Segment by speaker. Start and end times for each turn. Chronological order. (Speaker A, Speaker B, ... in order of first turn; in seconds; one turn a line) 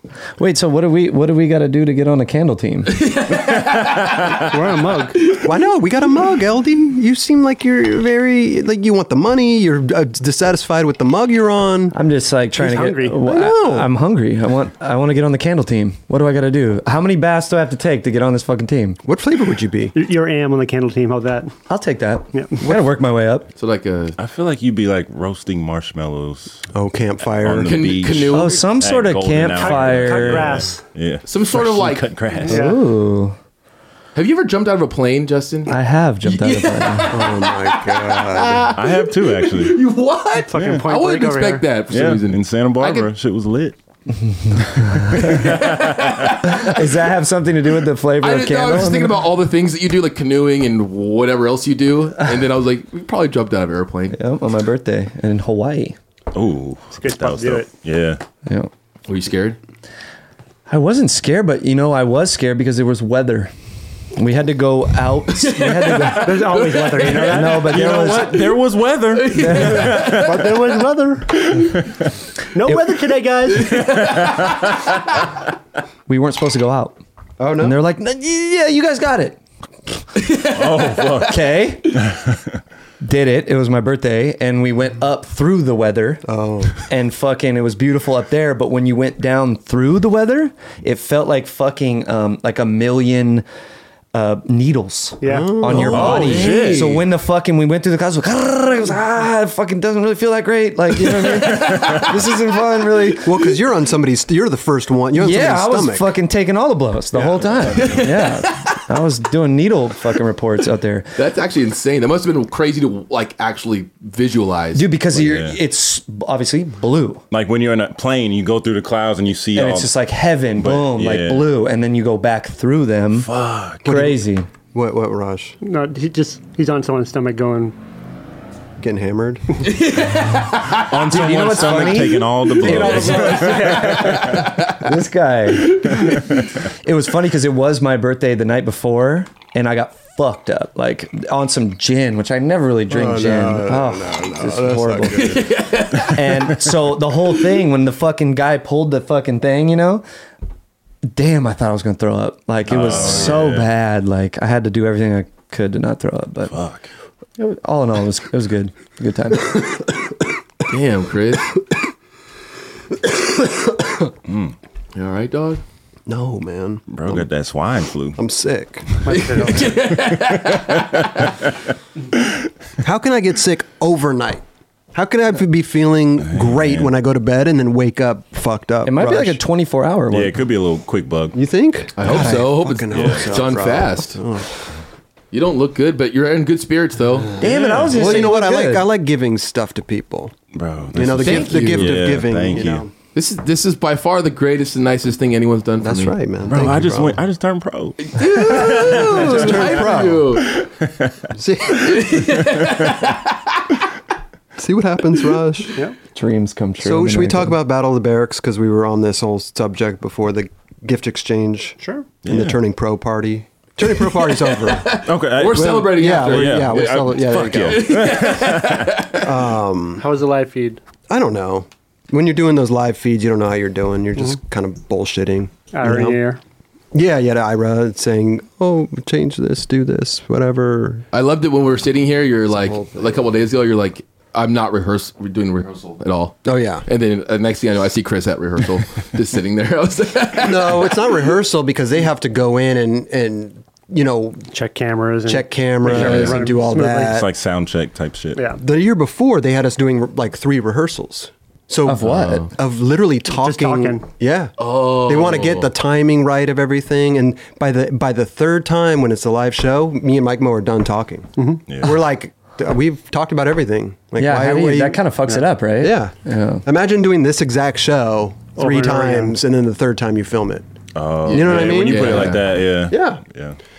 Speaker A: 0.4-3.0
Speaker B: 2.9-4.5
Speaker C: 3.3-4.4
Speaker D: 4.5-5.3
Speaker B: 5.2-5.5
Speaker E: 5.4-11.9
Speaker A: 11.9-19.0
Speaker D: 12.6-13.2
Speaker E: 13.2-13.9
Speaker E: 19.0-19.9
Speaker D: 19.9-21.5
Speaker A: 21.7-23.5
Speaker B: 23.6-24.2
Speaker C: 24.2-26.7
Speaker E: 26.7-27.9
Speaker C: 27.3-32.7
Speaker B: 27.6-28.6
Speaker A: 28.3-30.7
Speaker D: 29.5-30.9
Speaker B: 31.2-32.1
Speaker D: 32.4-32.8
Speaker A: 32.5-33.4
Speaker B: 34.1-43.1
Speaker A: 35.7-37.1
Speaker E: 37.1-38.8
Speaker C: 38.7-39.8
Speaker D: 40.5-41.7
Speaker C: 40.5-40.8
Speaker C: 41.9-43.8
Speaker A: 44.1-45.5
Speaker C: 44.7-46.6
Speaker B: 45.2-46.8
Speaker A: 46.5-49.2
Speaker B: 48.2-54.2
Speaker A: 54.1-56.0
Speaker C: 56.3-58.2
Speaker D: 57.0-57.7
Speaker B: 59.1-59.6
Speaker A: 60.7-63.5
Speaker A: 64.1-66.6
Speaker B: 65.3-67.6
Speaker D: 66.2-67.8
Speaker A: 67.2-68.5
Speaker C: 67.2-70.6
Speaker B: 69.1-70.5
Speaker A: 69.3-69.9
Speaker D: 69.6-71.5
Speaker C: 71.5-71.9
Speaker D: 72.5-73.8
Speaker B: 73.5-74.8
Speaker C: 73.9-74.9
Speaker A: 76.1-77.0
Speaker E: 77.4-77.8
Speaker A: 77.6-79.4
Speaker B: 80.2-81.3
Speaker C: 80.5-81.4
Speaker A: 81.2-82.0
Speaker C: 81.9-82.4
Speaker A: 83.0-86.2
Speaker E: 86.2-86.7
Speaker A: 86.8-93.4
Speaker A: 94.1-103.3
Speaker D: 95.2-96.0
Speaker E: 95.2-96.3
Speaker B: 95.7-97.0
Speaker C: 95.8-97.0
Speaker B: 101.0-102.1
Speaker C: 101.6-102.0
Speaker E: 103.2-106.1
Speaker A: 105.1-111.2
Speaker C: 107.3-108.1
Speaker B: 107.7-108.8
Speaker B: 111.2-114.9
Speaker A: 114.7-117.2
Speaker C: 115.1-115.6
Speaker C: 117.3-119.9
Speaker A: 119.5-123.3
Speaker C: 120.6-121.5
Speaker C: 123.1-123.8
Speaker A: 123.8-124.5
Speaker E: 123.8-125.5
Speaker D: 125.6-127.7
Speaker E: 128.8-129.7
Speaker B: 129.6-130.9
Speaker C: 130.7-134.5
Speaker A: 130.9-145.3
Speaker B: 131.6-131.9
Speaker B: 132.6-134.8
Speaker D: 132.8-134.3
Speaker B: 135.6-136.1
Speaker E: 142.9-145.5
Speaker B: 145.1-146.5
Speaker A: 146.0-150.0
Speaker A: 151.0-156.5
Speaker C: 152.7-153.7
Speaker B: 153.0-153.3
Speaker C: 156.5-156.9
Speaker A: 157.4-159.6
Speaker B: 160.7-161.5
Speaker C: 164.3-164.5
Speaker B: 164.9-165.6
Speaker E: 166.1-167.2
Speaker C: 166.9-168.2
Speaker E: 168.2-169.0
Speaker D: 169.0-169.7
Speaker B: 169.1-171.3
Speaker C: 170.0-171.4
Speaker E: 172.8-174.4
Speaker E: 174.9-179.4
Speaker C: 176.2-176.9
Speaker A: 178.8-180.4
Speaker C: 180.1-181.4
Speaker E: 181.3-184.8
Speaker B: 182.0-184.2
Speaker C: 182.9-183.4
Speaker B: 185.3-187.4
Speaker A: 187.4-188.9
Speaker C: 187.4-188.2
Speaker E: 187.8-190.3
Speaker C: 190.5-192.8
Speaker E: 190.9-192.9
Speaker B: 191.2-192.1
Speaker B: 193.1-196.1
Speaker E: 195.8-197.2
Speaker C: 196.5-199.8
Speaker B: 198.0-200.6
Speaker E: 198.4-200.4
Speaker C: 200.4-201.1
Speaker E: 201.3-202.2
Speaker B: 201.7-203.4
Speaker E: 204.6-205.8
Speaker A: 206.1-207.6
Speaker E: 206.8-218.2
Speaker D: 211.8-212.1
Speaker C: 212.2-212.6
Speaker B: 214.4-219.3
Speaker C: 215.0-219.0
Speaker E: 219.2-220.1
Speaker D: 220.0-220.8
Speaker E: 221.1-226.2
Speaker D: 225.7-226.4
Speaker E: 226.9-231.0
Speaker B: 231.1-241.1
Speaker E: 232.5-233.2
Speaker E: 236.4-236.8
Speaker E: 240.4-244.5
Speaker D: 244.5-247.2
Speaker E: 245.2-247.3
Speaker B: 245.9-246.4
Speaker C: 246.0-246.2
Speaker C: 247.1-248.4
Speaker D: 248.3-248.6
Speaker E: 248.6-265.0
Speaker A: 251.8-252.5
Speaker B: 252.1-252.4
Speaker D: 253.3-254.1
Speaker B: 254.6-255.7
Speaker D: 261.4-261.6
Speaker C: 261.7-262.0
Speaker A: 264.2-266.6
Speaker E: 265.8-270.7
Speaker D: 268.6-269.3
Speaker C: 270.9-273.6
Speaker B: 271.2-272.5
Speaker E: 271.3-273.2